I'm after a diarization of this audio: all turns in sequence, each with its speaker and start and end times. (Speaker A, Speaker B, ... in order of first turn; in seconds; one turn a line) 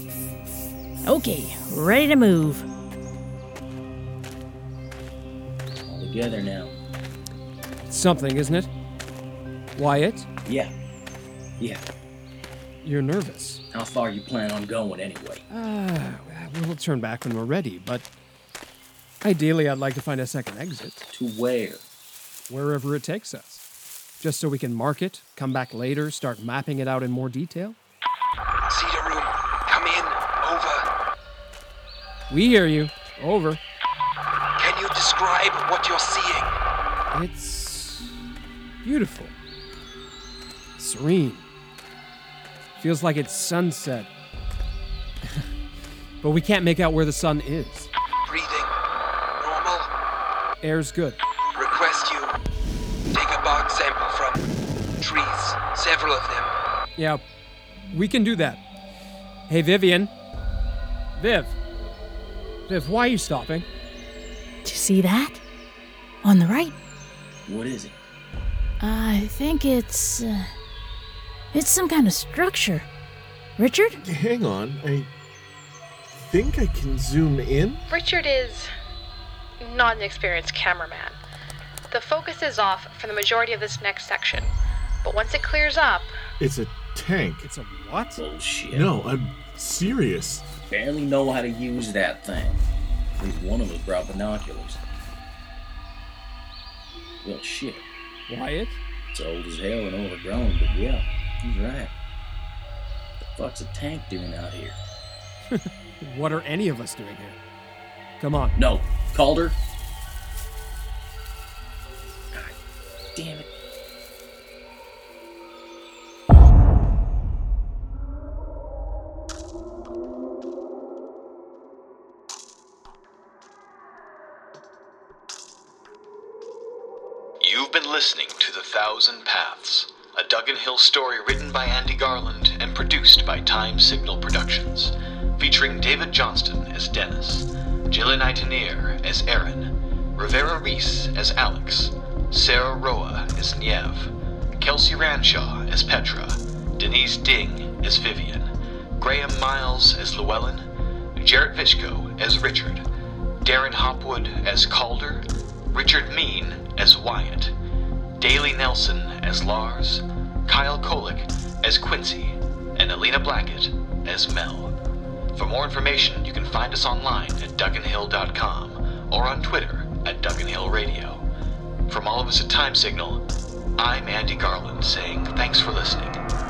Speaker A: 1.1-2.7
Speaker B: 5.9-6.7
Speaker C: 7.9-8.7
Speaker C: 9.8-10.3
Speaker B: 10.4-10.7
Speaker C: 12.8-13.6
Speaker B: 13.7-15.4
Speaker C: 15.5-18.1
Speaker C: 19.2-21.1
Speaker B: 21.1-21.9
Speaker C: 22.5-23.6
Speaker C: 24.2-27.8
Speaker D: 28.7-30.9
Speaker C: 32.3-33.6
Speaker D: 34.6-36.5
Speaker C: 37.1-38.2
Speaker C: 38.8-39.4
Speaker C: 40.8-41.5
Speaker C: 42.8-44.1
Speaker C: 46.2-47.9
Speaker D: 48.2-48.8
Speaker D: 49.4-49.9
Speaker C: 50.6-51.2
Speaker D: 51.5-52.4
Speaker D: 53.1-54.5
Speaker D: 55.0-56.5
Speaker C: 57.0-57.2
Speaker C: 57.9-58.6
Speaker C: 59.5-60.1
Speaker C: 61.2-61.6
Speaker C: 62.7-63.7
Speaker A: 64.6-65.4
Speaker A: 66.2-66.7
Speaker B: 67.5-68.0
Speaker A: 68.8-70.5
Speaker A: 71.5-72.9
Speaker A: 73.6-74.0
Speaker E: 74.0-75.1
Speaker E: 76.1-77.9
Speaker F: 77.9-78.7
Speaker F: 79.6-81.2
Speaker F: 81.9-84.5
Speaker F: 85.0-86.1
Speaker E: 86.4-87.5
Speaker C: 87.4-88.2
Speaker B: 88.2-88.9
Speaker E: 88.7-90.5
Speaker B: 90.7-92.6
Speaker B: 93.2-94.8
Speaker B: 97.2-97.8
Speaker C: 98.3-98.8
Speaker B: 99.1-101.9
Speaker B: 103.2-104.8
Speaker C: 105.5-107.4
Speaker C: 108.2-108.5
Speaker B: 108.6-109.6
Speaker B: 113.2-113.5
Speaker G: 127.4-152.8
Speaker G: 153.4-157.5
Speaker G: 158.2-164.8
Speaker G: 165.3-171.3
Speaker G: 171.9-173.2
Speaker G: 173.8-176.2